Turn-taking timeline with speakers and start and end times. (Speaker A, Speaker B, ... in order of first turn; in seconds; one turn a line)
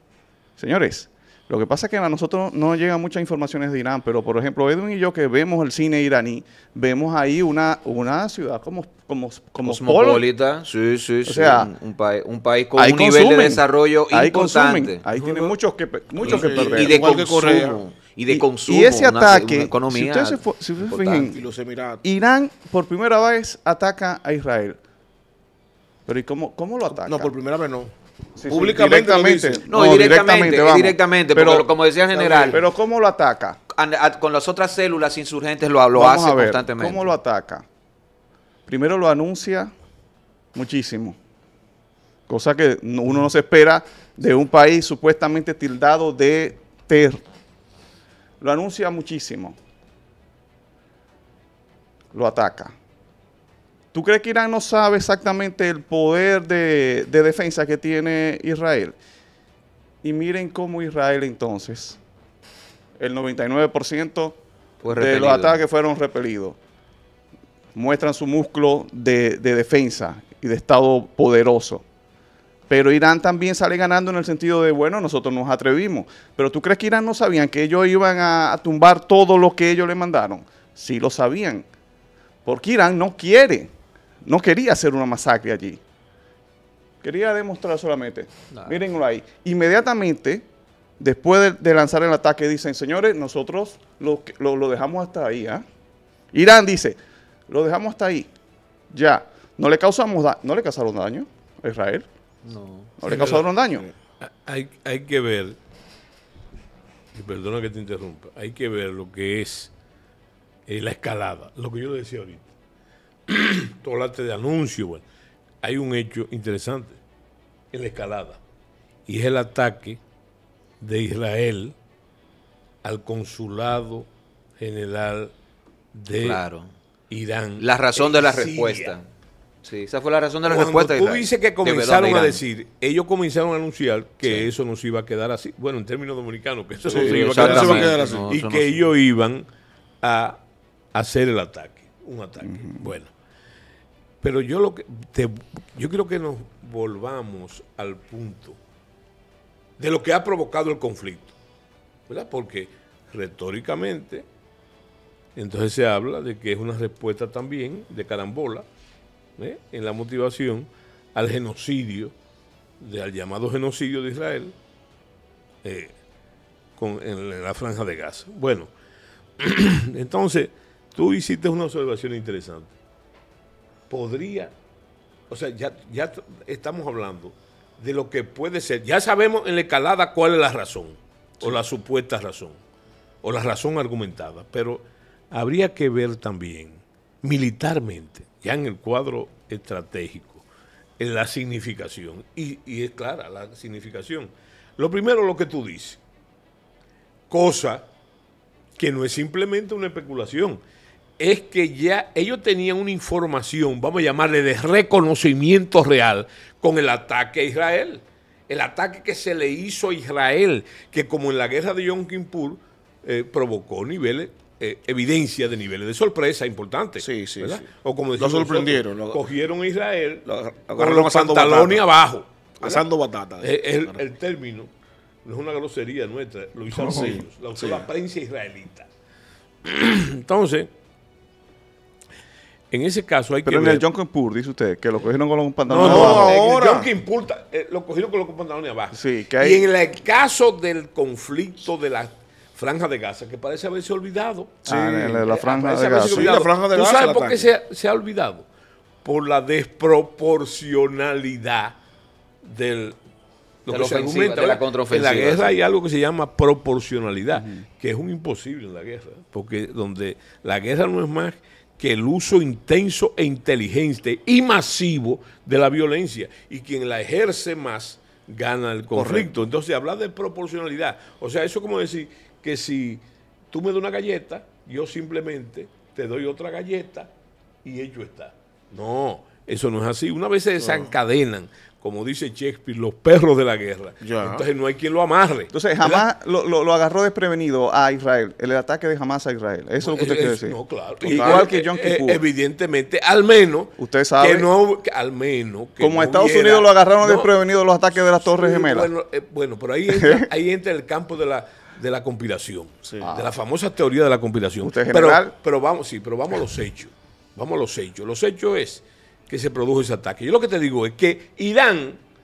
Speaker A: 0.6-10.3
Speaker B: 9.6-15.0
Speaker A: 11.2-11.7
Speaker A: 12.8-17.0
Speaker C: 15.1-15.5
Speaker C: 16.2-17.8
Speaker B: 16.2-21.3
Speaker A: 18.3-21.4
Speaker C: 21.1-22.0
Speaker A: 22.0-24.8
Speaker A: 26.1-27.3
Speaker C: 26.9-27.9
Speaker A: 28.4-33.6
Speaker C: 28.5-29.7
Speaker B: 29.7-32.6
Speaker C: 32.2-32.6
Speaker B: 33.7-37.1
Speaker A: 35.9-37.7
Speaker A: 38.7-39.7
Speaker A: 40.5-41.2
Speaker A: 42.3-47.2
Speaker A: 48.4-49.6
Speaker A: 52.1-52.7
Speaker A: 53.9-59.0
Speaker A: 60.0-62.0
Speaker A: 63.0-66.6
Speaker B: 64.8-65.6
Speaker A: 67.7-71.8
Speaker A: 72.7-81.7
Speaker A: 82.4-83.7
Speaker A: 84.2-85.8
Speaker A: 87.0-90.4
Speaker A: 91.0-95.6
Speaker A: 96.3-98.3
Speaker A: 98.9-102.0
Speaker B: 102.4-102.9
Speaker A: 103.0-103.9
Speaker D: 103.0-103.5
Speaker C: 103.1-103.9
Speaker D: 104.2-105.6
Speaker D: 107.1-109.7
Speaker D: 110.7-112.5
Speaker D: 113.3-115.0
Speaker D: 115.6-117.0
Speaker D: 117.7-118.4
Speaker D: 119.1-120.0
Speaker D: 120.8-121.7
Speaker D: 122.8-124.1
Speaker D: 124.6-125.3
Speaker D: 125.9-126.4
Speaker B: 126.2-126.7
Speaker D: 127.1-128.9
Speaker B: 127.6-129.1
Speaker B: 129.6-132.4
Speaker D: 130.4-139.5
Speaker B: 134.2-134.5
Speaker C: 136.8-138.3
Speaker B: 136.8-138.9
Speaker D: 140.0-140.4
Speaker D: 140.9-143.1
Speaker A: 142.4-142.9
Speaker D: 144.2-148.6
Speaker D: 149.8-151.3
Speaker D: 152.1-154.2
Speaker D: 155.3-158.7
Speaker D: 159.4-162.1
Speaker D: 162.8-164.5
Speaker D: 165.6-165.9
Speaker D: 166.8-168.7
Speaker D: 169.4-172.7
Speaker D: 173.9-174.5
Speaker D: 175.3-182.6
Speaker D: 183.2-190.4
Speaker D: 191.0-196.0
Speaker D: 197.3-197.8
Speaker D: 198.8-200.6
Speaker D: 201.2-222.8
Speaker C: 217.0-219.2
Speaker C: 220.3-221.8
Speaker C: 222.6-224.0
Speaker D: 223.4-224.7
Speaker D: 225.2-228.9
Speaker A: 226.7-227.1
Speaker C: 226.8-227.9
Speaker D: 229.6-230.7
Speaker D: 232.7-233.8
Speaker A: 233.4-236.4
Speaker C: 235.7-236.9
Speaker D: 235.7-244.7
Speaker A: 238.9-239.7
Speaker A: 244.6-246.4
Speaker C: 244.7-247.5
Speaker D: 245.2-248.4
Speaker D: 249.0-251.8
Speaker D: 252.4-252.9
Speaker D: 253.7-277.1
Speaker B: 253.7-255.5
Speaker C: 268.9-269.4
Speaker D: 277.6-286.0
Speaker C: 280.6-280.9
Speaker C: 284.0-284.5
Speaker A: 285.5-292.2
Speaker D: 289.8-297.3
Speaker C: 291.0-291.4
Speaker A: 293.8-294.5
Speaker A: 295.8-298.9
Speaker D: 298.2-312.0
Speaker A: 299.9-300.3
Speaker C: 302.8-303.1
Speaker A: 303.0-303.3
Speaker A: 304.6-305.3